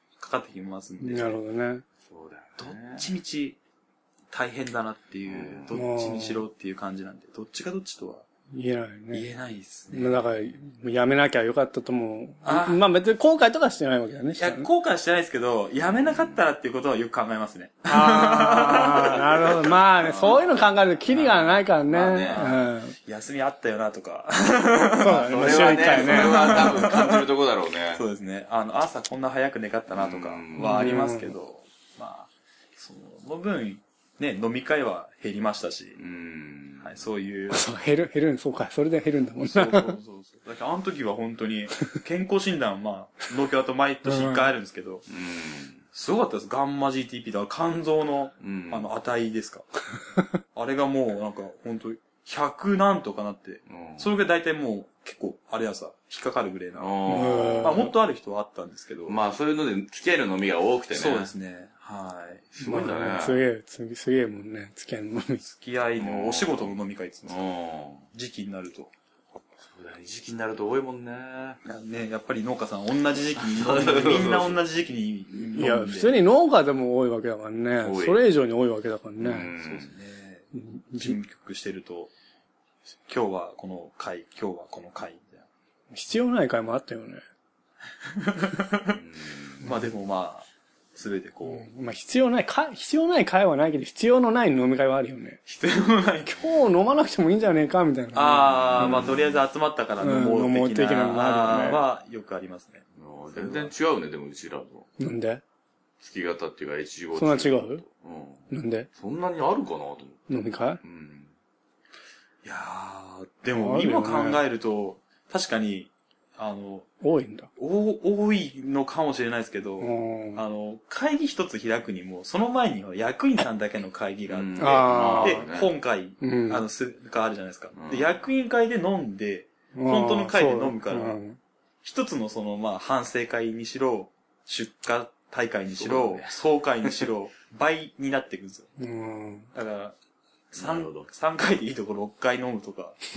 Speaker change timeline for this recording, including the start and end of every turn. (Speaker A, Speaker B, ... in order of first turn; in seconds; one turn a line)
Speaker A: 0.2-1.4
Speaker B: 1.0-1.8
Speaker C: 2.1-3.1
Speaker A: 2.6-3.6
Speaker A: 4.3-8.2
Speaker C: 5.3-5.7
Speaker B: 5.7-6.4
Speaker B: 8.5-9.3
Speaker A: 9.1-10.2
Speaker B: 9.9-14.7
Speaker A: 12.4-12.8
Speaker A: 14.4-21.5
Speaker C: 16.1-16.3
Speaker B: 17.9-22.9
Speaker C: 21.6-22.5
Speaker A: 22.3-27.3
Speaker B: 25.0-26.8
Speaker C: 25.0-28.0
Speaker A: 27.9-36.0
Speaker C: 29.9-31.0
Speaker B: 30.6-31.3
Speaker C: 36.0-37.0
Speaker A: 36.8-37.7
Speaker B: 37.5-40.0
Speaker A: 39.4-45.0
Speaker B: 44.1-44.5
Speaker C: 45.1-45.8
Speaker A: 45.9-49.7
Speaker C: 48.4-48.9
Speaker A: 50.5-59.2
Speaker C: 53.7-54.1
Speaker C: 56.8-57.8
Speaker B: 57.1-57.9
Speaker C: 59.1-61.3
Speaker A: 60.9-62.5
Speaker C: 62.5-63.4
Speaker B: 62.6-65.4
Speaker A: 65.4-67.4
Speaker C: 66.0-66.7
Speaker C: 67.3-68.1
Speaker A: 68.1-68.9
Speaker C: 69.7-71.6
Speaker A: 71.6-76.2
Speaker C: 73.4-74.6
Speaker B: 75.5-79.5
Speaker C: 77.8-78.2
Speaker C: 79.2-79.9
Speaker A: 79.6-82.1
Speaker B: 80.5-81.2
Speaker A: 83.1-85.5
Speaker B: 85.9-87.2
Speaker A: 88.1-89.0
Speaker C: 88.9-89.6
Speaker A: 89.6-91.7
Speaker B: 91.5-95.4
Speaker A: 95.5-96.5
Speaker B: 96.3-99.0
Speaker A: 98.1-103.7
Speaker C: 98.8-99.4
Speaker B: 100.0-101.8
Speaker C: 103.0-104.9
Speaker B: 105.0-105.4
Speaker C: 106.0-111.3
Speaker B: 107.2-107.8
Speaker B: 108.5-108.9
Speaker B: 110.3-110.8
Speaker A: 112.4-116.9
Speaker B: 113.5-114.4
Speaker B: 117.0-117.5
Speaker A: 117.6-131.2
Speaker B: 119.8-120.4
Speaker C: 124.3-125.7
Speaker B: 124.6-125.4
Speaker B: 126.2-126.6
Speaker C: 127.7-128.1
Speaker B: 129.7-131.4
Speaker A: 131.8-138.7
Speaker C: 135.8-136.4
Speaker B: 138.8-139.5
Speaker A: 139.5-140.0
Speaker A: 140.5-143.0
Speaker C: 140.6-141.1